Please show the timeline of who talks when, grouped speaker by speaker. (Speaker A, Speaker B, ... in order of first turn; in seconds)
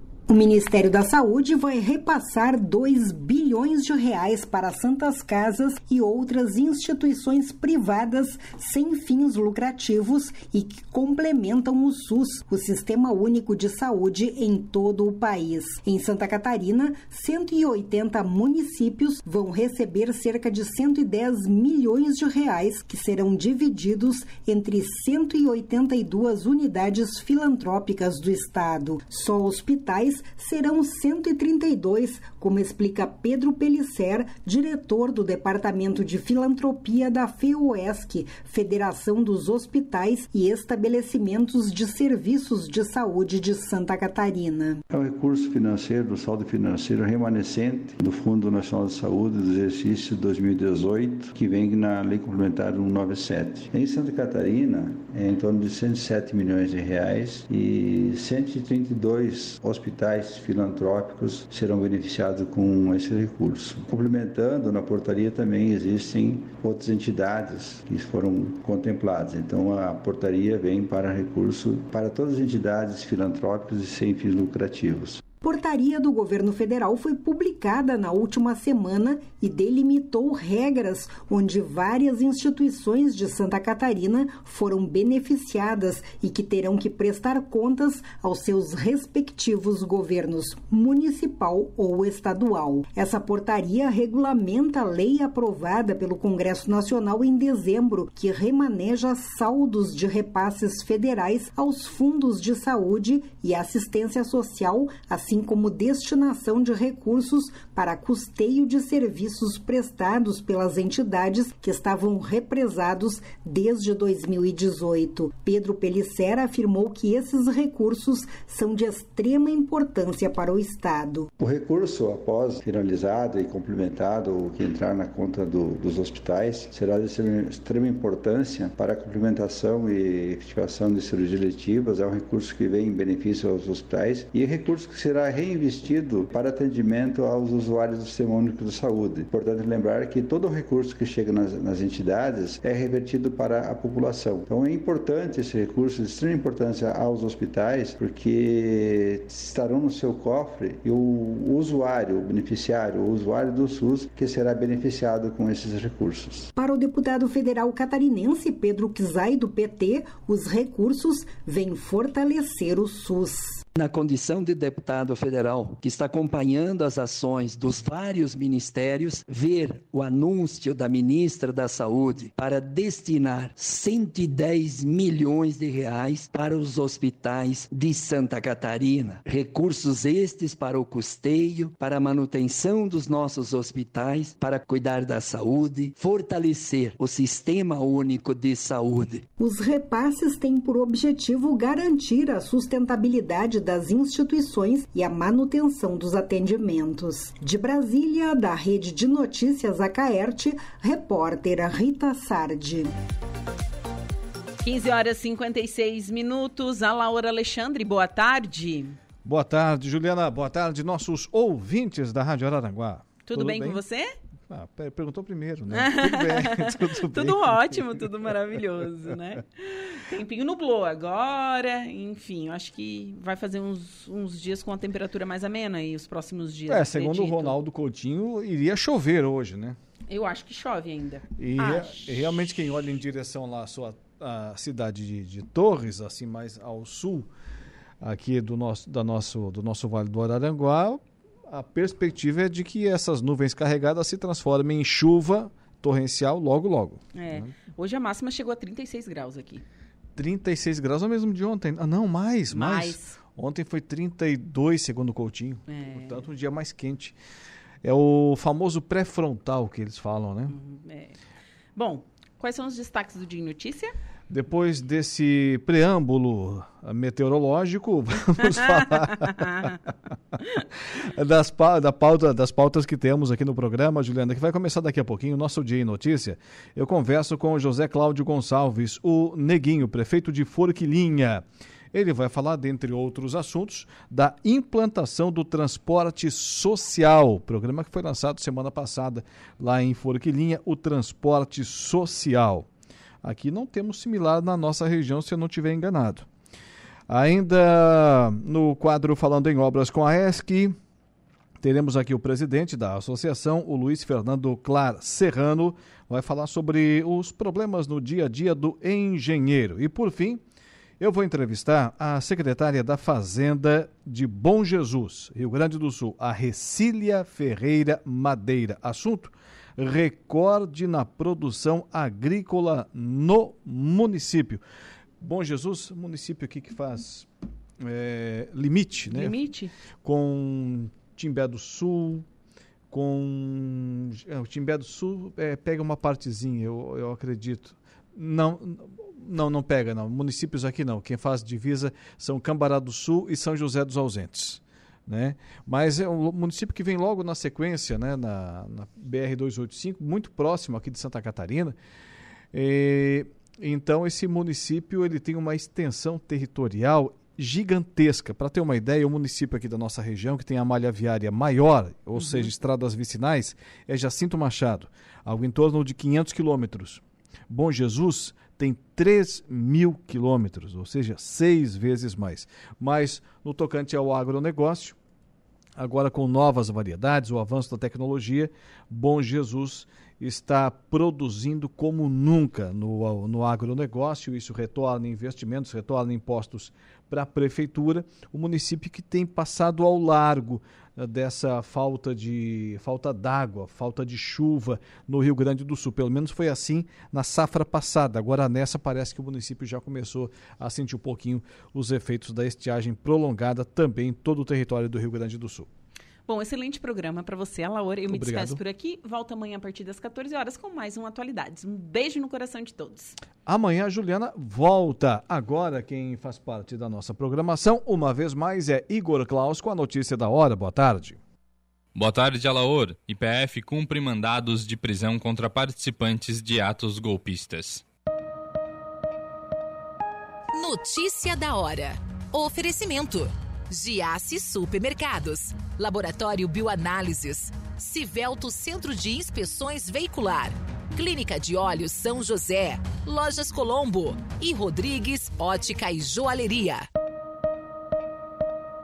Speaker A: 0.3-44.8, 75.4-121.3, 156.5-163.6, 189.4-202.9
Speaker B: 44.9-75.2, 121.4-156.5
Speaker C: 163.7-189.2
Speaker D: 204.6-209.0, 213.3-214.1, 215.7-227.6, 230.1-232.3, 247.1-249.6, 252.5-253.2, 255.7-256.2, 260.5-261.2, 261.8-263.9, 269.2-269.7, 329.1-329.7, 362.1-362.5, 406.3-413.2
Speaker E: 209.2-213.8, 214.5-218.0, 226.7-229.8, 231.4-237.3, 238.0-247.5, 250.2-257.1, 257.8-260.5, 264.3-269.7, 271.0-292.7, 293.2-296.3, 297.1-300.7, 301.6-310.4, 311.0-324.6, 325.2-327.3, 327.8-329.4, 330.0-332.2, 332.9-351.7, 352.5-374.9, 375.8-405.7, 408.1-408.6, 413.4-421.2
Speaker F: 421.9-427.8
Speaker G: 430.5-446.8